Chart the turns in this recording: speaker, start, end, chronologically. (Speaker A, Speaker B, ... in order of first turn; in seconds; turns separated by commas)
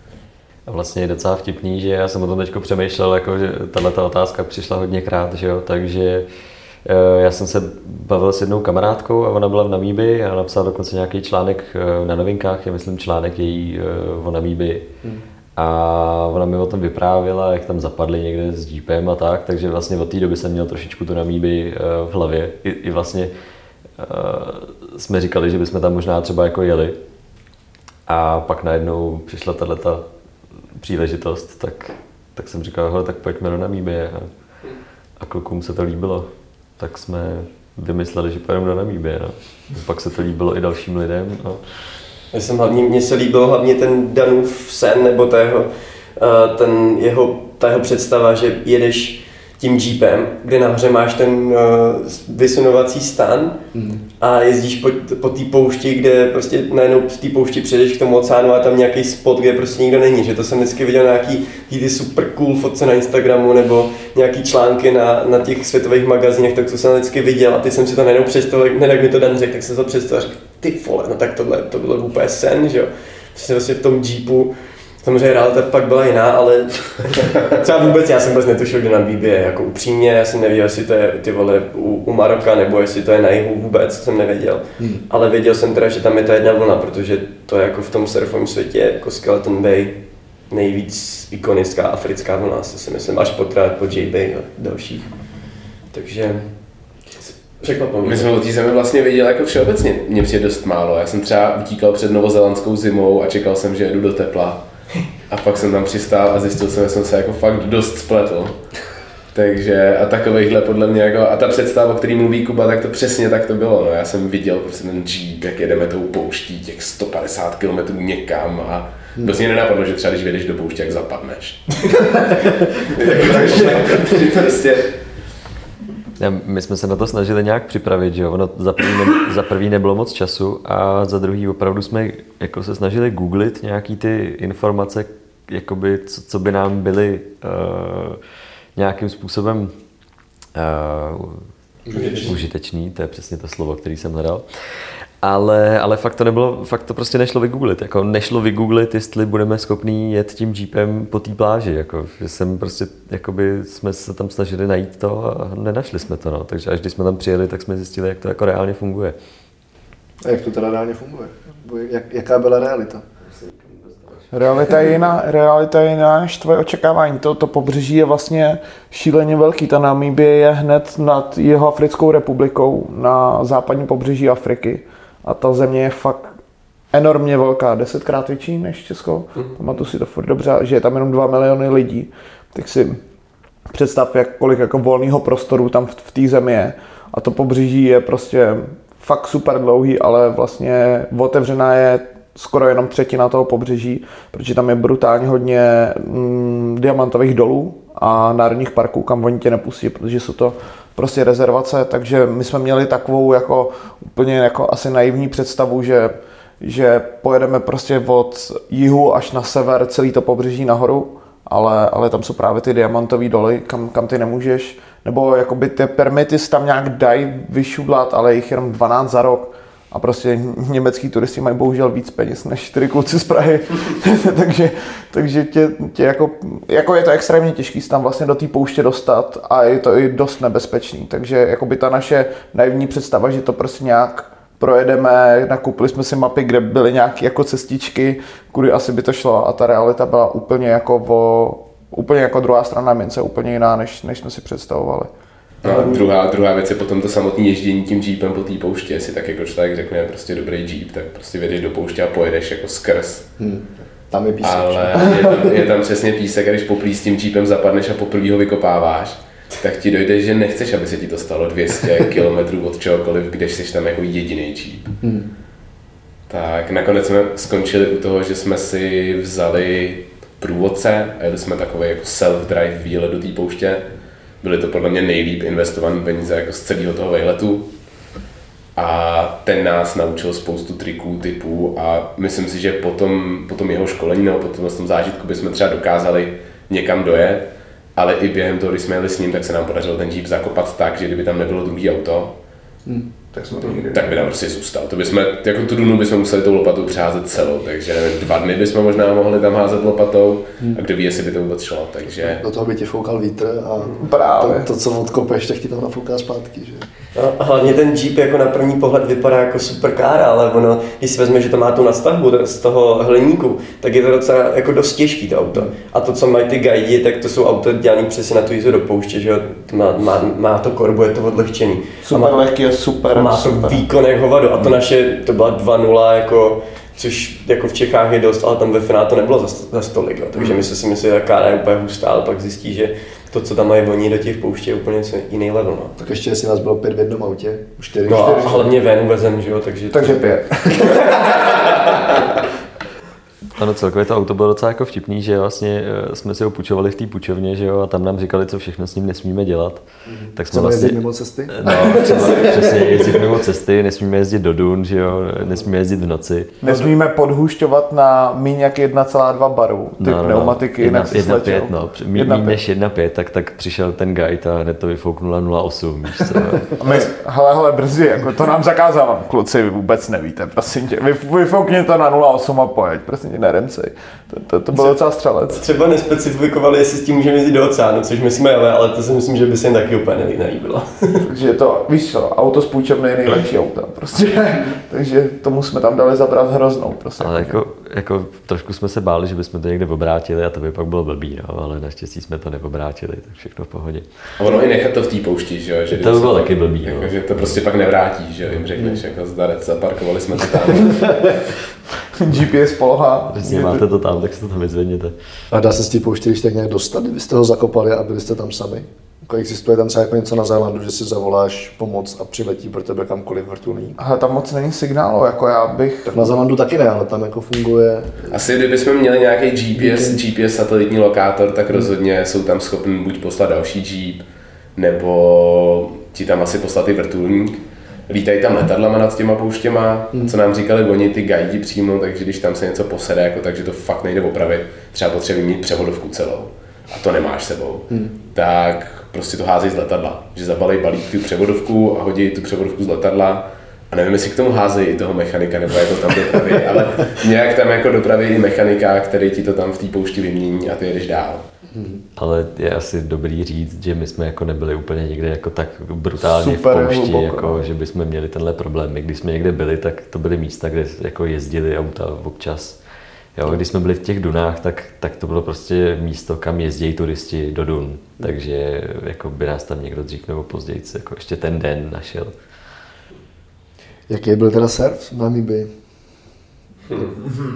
Speaker A: 0.7-6.3, Speaker A: 6.8-14.9, Speaker A: 15.6-23.3, Speaker A: 24.0-27.0, Speaker A: 28.1-30.0, Speaker A: 30.8-34.3, Speaker A: 35.2-41.6, Speaker B: 42.3-53.6, Speaker C: 53.7-54.0, Speaker B: 54.2-95.1, Speaker B: 95.9-96.5, Speaker B: 97.2-98.3, Speaker D: 98.0-104.7, Speaker D: 105.3-108.6, Speaker D: 109.3-124.9, Speaker B: 123.3-123.6, Speaker A: 126.2-138.2, Speaker A: 138.8-139.7, Speaker A: 140.6-141.5, Speaker C: 141.9-142.3, Speaker B: 141.9-142.3, Speaker A: 142.2-159.2, Speaker C: 160.2-163.1, Speaker A: 163.7-164.2, Speaker E: 164.3-176.3, Speaker E: 176.9-183.0, Speaker E: 183.7-245.1, Speaker E: 245.6-246.1, Speaker D: 245.6-253.3, Speaker C: 253.4-255.5, Speaker D: 254.4-265.0, Speaker C: 265.0-265.3, Speaker D: 266.3-273.9, Speaker D: 274.4-277.7, Speaker D: 278.8-292.4, Speaker C: 292.9-293.1, Speaker E: 293.3-294.2, Speaker D: 293.7-302.4, Speaker C: 302.4-306.9, Speaker E: 304.0-304.7, Speaker B: 307.1-322.4, Speaker E: 322.0-323.8, Speaker B: 323.1-336.0, Speaker C: 336.0-338.7, Speaker B: 338.1-340.2, Speaker E: 339.9-341.2, Speaker B: 340.8-341.5, Speaker A: 343.6-349.8, Speaker C: 350.1-352.4, Speaker A: 350.3-356.6, Speaker B: 351.9-352.2, Speaker E: 356.6-362.6, Speaker A: 360.0-366.8, Speaker E: 366.8-375.6, Speaker B: 375.5-381.2, Speaker E: 381.2-387.6, Speaker A: 387.2-394.1, Speaker D: 394.4-401.2, Speaker A: 395.9-397.6, Speaker C: 398.8-399.0, Speaker E: 402.2-403.8, Speaker A: 403.3-405.1, Speaker C: 405.5-414.0, Speaker E: 414.0-416.2, Speaker C: 416.1-418.3, Speaker D: 418.3-424.2, Speaker C: 419.8-420.2, Speaker D: 424.8-451.4, Speaker C: 451.7-452.0, Speaker A: 452.2-462.8, Speaker E: 456.2-457.6, Speaker A: 463.4-472.4, Speaker C: 474.1-475.7